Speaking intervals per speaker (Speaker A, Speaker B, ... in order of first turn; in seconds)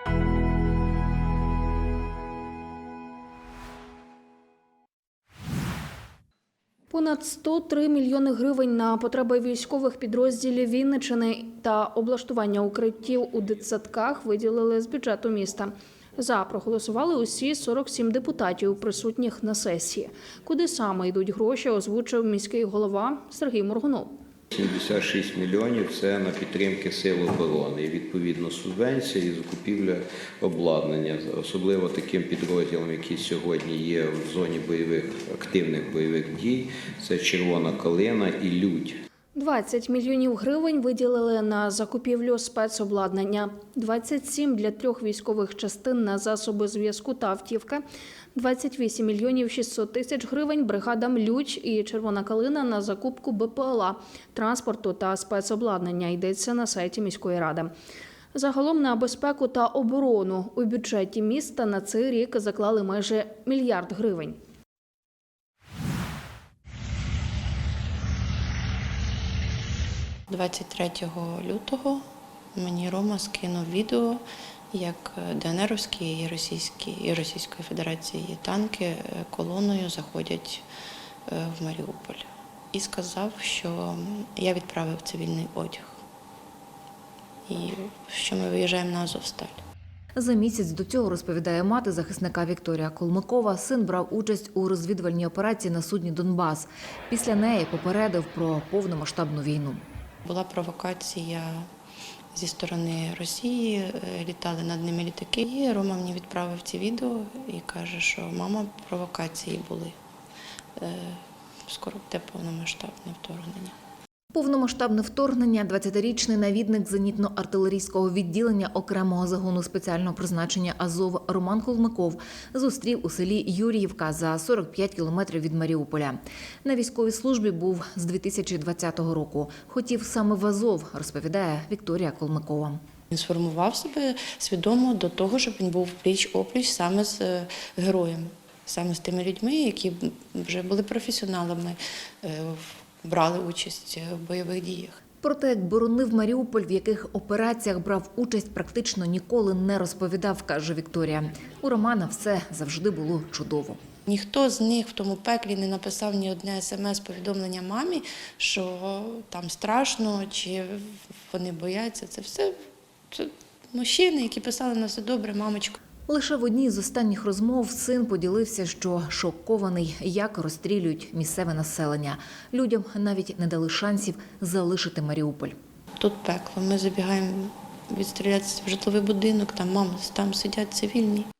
Speaker A: 6.9-24.1, 39.3-47.8, 48.3-57.7, 58.3-64.4
Speaker B: 24.5-39.0
Speaker C: 70.3-72.0, 72.5-74.2, 74.7-80.6, 81.3-86.0, 87.5-89.6, 100.2-101.7, 102.3-109.9, 110.8-113.8, 133.1-145.0, 154.1-162.6, 163.1-165.8, 176.0-181.3
Speaker D: 90.2-99.8, 114.3-132.8, 145.2-153.8, 166.1-175.6